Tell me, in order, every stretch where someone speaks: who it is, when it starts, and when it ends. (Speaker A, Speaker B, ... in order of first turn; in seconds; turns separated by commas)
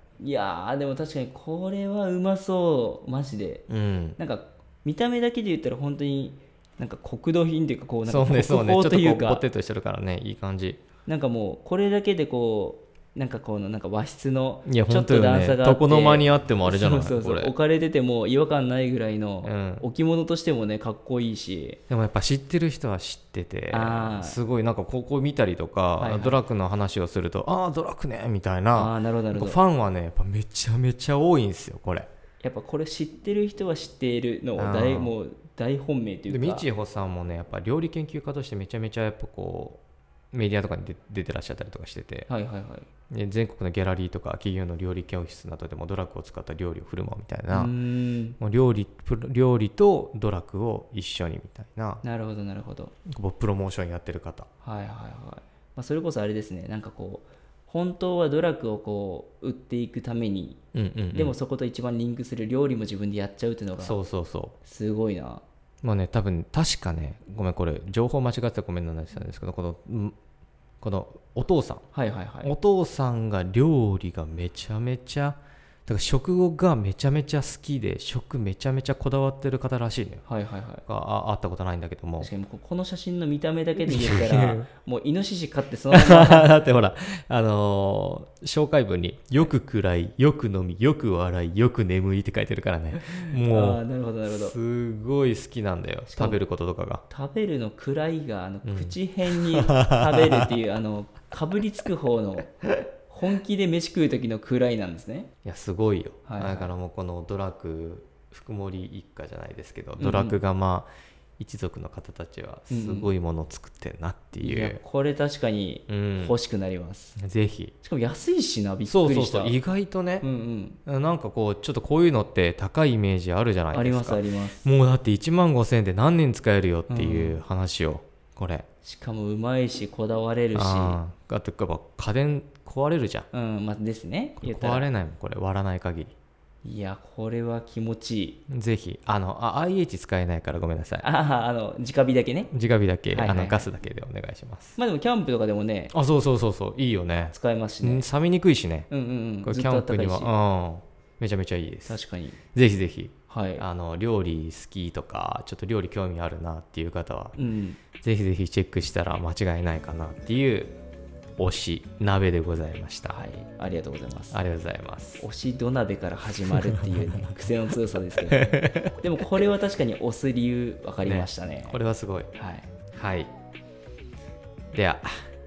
Speaker A: 0.2-9.4, Speaker B: 3.7-4.2, Speaker B: 8.1-10.8, Speaker A: 11.1-21.8, Speaker B: 14.7-17.5, Speaker B: 19.4-19.9, Speaker B: 21.9-32.1, Speaker A: 23.7-24.4, Speaker A: 26.0-26.4, Speaker A: 28.7-29.6, Speaker A: 32.4-36.7, Speaker B: 34.6-35.1, Speaker B: 36.3-39.8, Speaker B: 40.3-42.3, Speaker A: 42.3-42.9, Speaker B: 43.1-47.7, Speaker A: 47.5-48.4, Speaker B: 48.4-52.0, Speaker A: 52.0-52.9, Speaker B: 53.1-54.5, Speaker A: 54.6-60.6, Speaker B: 60.7-61.4, Speaker A: 61.1-64.0, Speaker B: 63.8-64.6, Speaker A: 64.6-65.4, Speaker B: 65.8-70.2, Speaker B: 70.8-71.9, Speaker A: 71.9-72.5, Speaker B: 72.4-80.2, Speaker A: 80.3-80.8, Speaker B: 80.9-82.3, Speaker A: 82.2-86.5, Speaker B: 83.8-84.7, Speaker B: 85.9-97.0, Speaker A: 93.0-94.5, Speaker A: 96.1-96.4, Speaker A: 97.1-105.3, Speaker B: 98.7-99.0, Speaker B: 99.7-100.5, Speaker B: 105.4-114.8, Speaker A: 106.2-106.7, Speaker A: 110.0-110.4, Speaker A: 112.7-113.1, Speaker A: 114.4-117.2, Speaker B: 115.9-116.4, Speaker B: 117.2-117.7, Speaker A: 117.8-119.6, Speaker B: 118.9-120.3, Speaker A: 120.2-120.8, Speaker B: 120.9-128.7, Speaker A: 123.7-124.7, Speaker A: 126.9-127.4, Speaker A: 128.8-131.0, Speaker B: 130.5-133.3, Speaker A: 133.3-134.9, Speaker B: 134.4-136.1, Speaker A: 136.6-138.4, Speaker B: 138.5-141.1, Speaker A: 141.0-142.5, Speaker B: 142.5-144.8, Speaker A: 143.1-143.7, Speaker A: 144.8-145.9, Speaker B: 145.9-148.9, Speaker A: 147.3-148.1, Speaker A: 148.9-150.3, Speaker B: 149.4-152.0, Speaker A: 151.9-152.4, Speaker B: 152.5-157.4, Speaker A: 153.3-153.7, Speaker A: 157.4-157.8, Speaker B: 158.0-160.7, Speaker B: 161.4-163.2, Speaker A: 163.1-164.4, Speaker B: 164.3-165.2, Speaker A: 165.2-171.8, Speaker B: 168.3-169.0, Speaker B: 171.1-172.3, Speaker A: 172.3-172.7, Speaker B: 172.9-173.3, Speaker B: 174.7-175.1